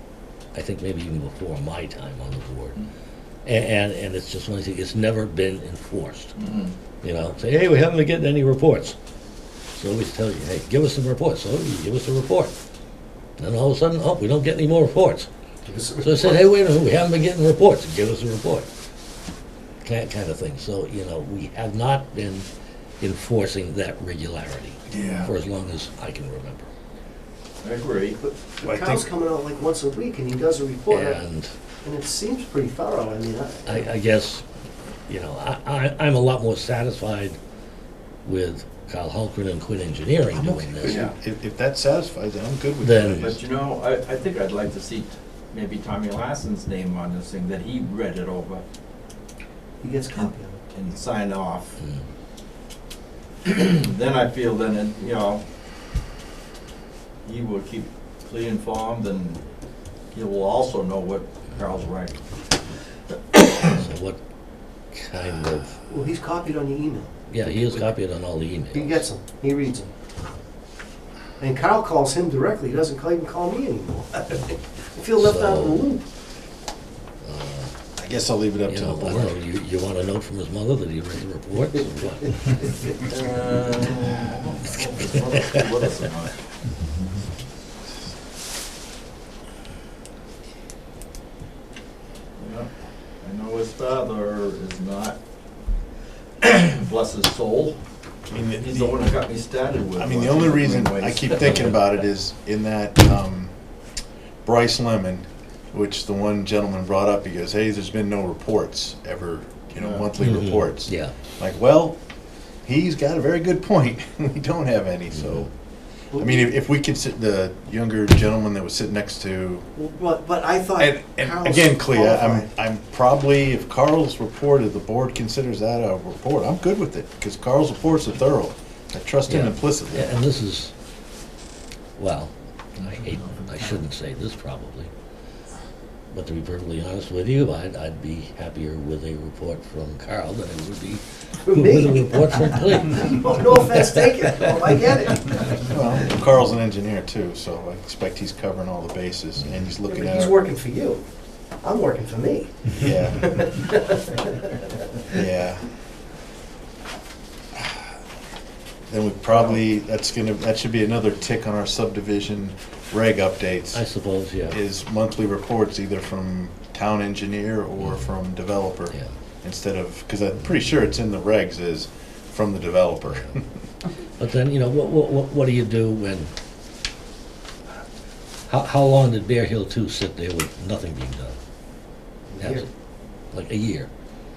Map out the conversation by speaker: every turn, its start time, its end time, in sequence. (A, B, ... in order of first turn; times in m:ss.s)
0:00.5-0:02.8 A
0:03.4-0:06.4 A
0:06.4-0:06.7 B
0:07.0-0:09.0 A
0:09.8-0:12.5 A
0:13.4-0:15.3 A
0:15.7-0:16.5 C
0:16.0-0:18.7 A
0:19.8-0:22.5 A
0:23.0-0:26.7 A
0:24.9-0:25.3 D
0:27.6-0:28.2 B
0:28.2-0:31.2 C
0:28.6-0:29.0 D
0:30.9-0:31.5 A
0:31.8-0:33.9 C
0:33.7-0:34.4 A
0:35.1-0:37.4 A
0:38.2-0:41.1 A
0:40.3-0:43.4 D
0:40.8-0:41.2 B
0:42.8-0:43.3 A
0:43.2-0:48.6 B
0:49.8-0:50.6 C
0:50.2-0:51.8 B
0:51.8-0:52.0 A
0:53.4-0:55.4 B
0:57.2-0:59.4 B
1:00.1-1:02.4 B
1:03.6-1:04.2 A
1:04.9-1:05.8 A
1:05.9-1:07.8 C
1:07.3-1:09.1 A
1:08.7-1:09.9 C
1:11.4-1:16.0 C
1:15.2-1:15.9 A
1:17.2-1:17.7 A
1:18.0-1:19.4 D
1:18.7-1:22.7 A
1:23.0-1:26.4 B
1:32.4-1:35.2 B
1:36.4-1:42.0 B
1:38.3-1:39.1 D
1:39.9-1:43.6 D
1:44.4-1:52.0 D
1:49.8-1:50.1 B
1:50.2-1:51.1 A
1:52.6-1:55.5 D
1:55.2-1:55.5 A
1:56.1-1:56.5 C
1:56.2-1:59.7 D
1:59.8-2:02.5 C
2:00.8-2:10.2 D
2:09.3-2:10.7 A
2:12.0-2:14.9 A
2:12.8-2:13.6 B
2:16.1-2:24.0 A
2:21.5-2:25.7 C
2:25.7-2:30.4 D
2:29.9-2:34.4 C
2:32.8-2:33.3 D
2:35.2-2:35.7 D
2:37.6-2:37.8 D
2:38.9-2:43.9 D
2:43.7-2:44.6 A
2:44.4-2:53.5 D
2:54.2-2:56.3 A
2:58.5-3:01.4 A
3:02.3-3:02.7 C
3:02.4-3:02.7 A
3:03.3-3:03.9 A